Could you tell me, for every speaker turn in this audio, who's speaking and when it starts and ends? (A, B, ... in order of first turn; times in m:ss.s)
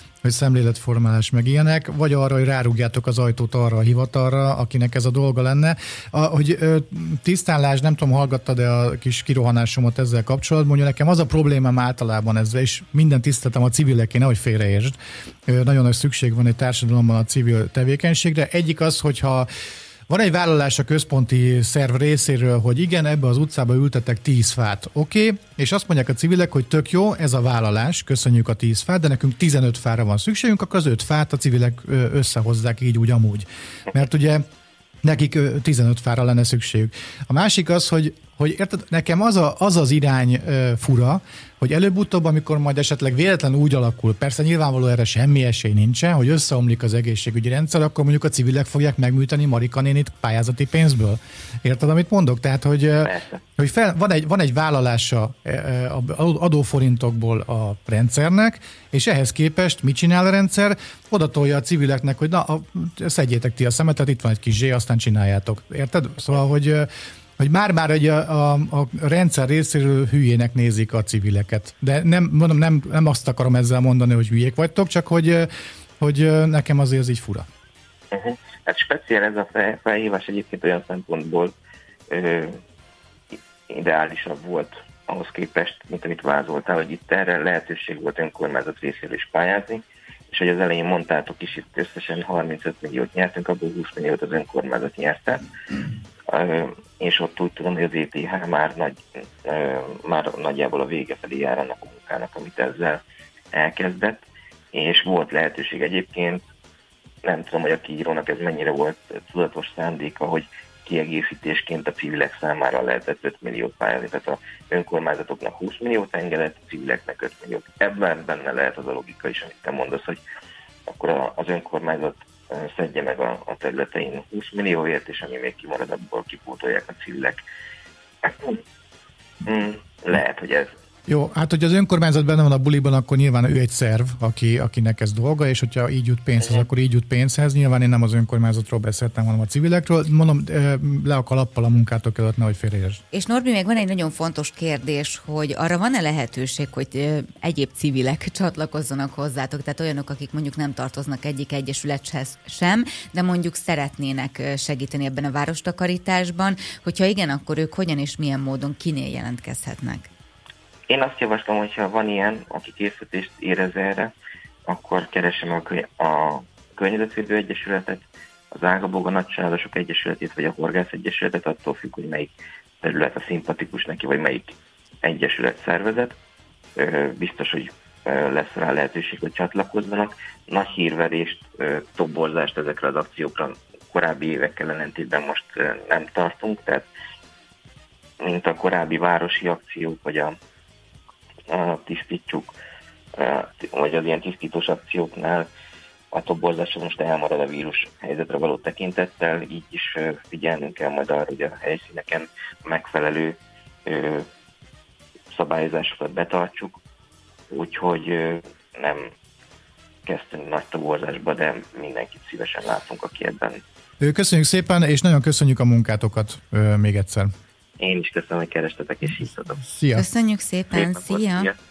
0:00.2-0:15.0 A
0:15.5-0:19.5 A
0:20.1-0:34.5 A
0:35.0-1:17.4 A
0:53.0-0:53.4 B
1:18.1-1:21.5 B
1:22.1-1:22.6 B
1:23.7-1:35.4 B
1:36.3-1:43.0 B
1:43.5-1:46.4 B
1:47.2-2:00.2 B
2:00.9-2:07.4 B
2:08.2-2:08.6 B
2:09.4-2:10.7 B
2:11.1-2:23.0 A
2:23.1-2:40.1 C
2:40.9-2:44.1 B
2:44.6-2:52.3 B
2:52.8-2:56.2 B
2:56.8-3:06.9 B
3:08.2-3:10.4 B
3:11.5-3:12.6 B
3:13.1-3:15.5 B
3:16.1-3:24.3 B
3:25.3-3:26.8 B
3:27.5-3:29.1 B
3:30.0-3:33.6 B
3:34.0-3:37.3 A
3:37.8-3:39.6 B
3:39.6-3:40.0 A
3:39.9-3:41.5 C
3:40.7-3:41.6 B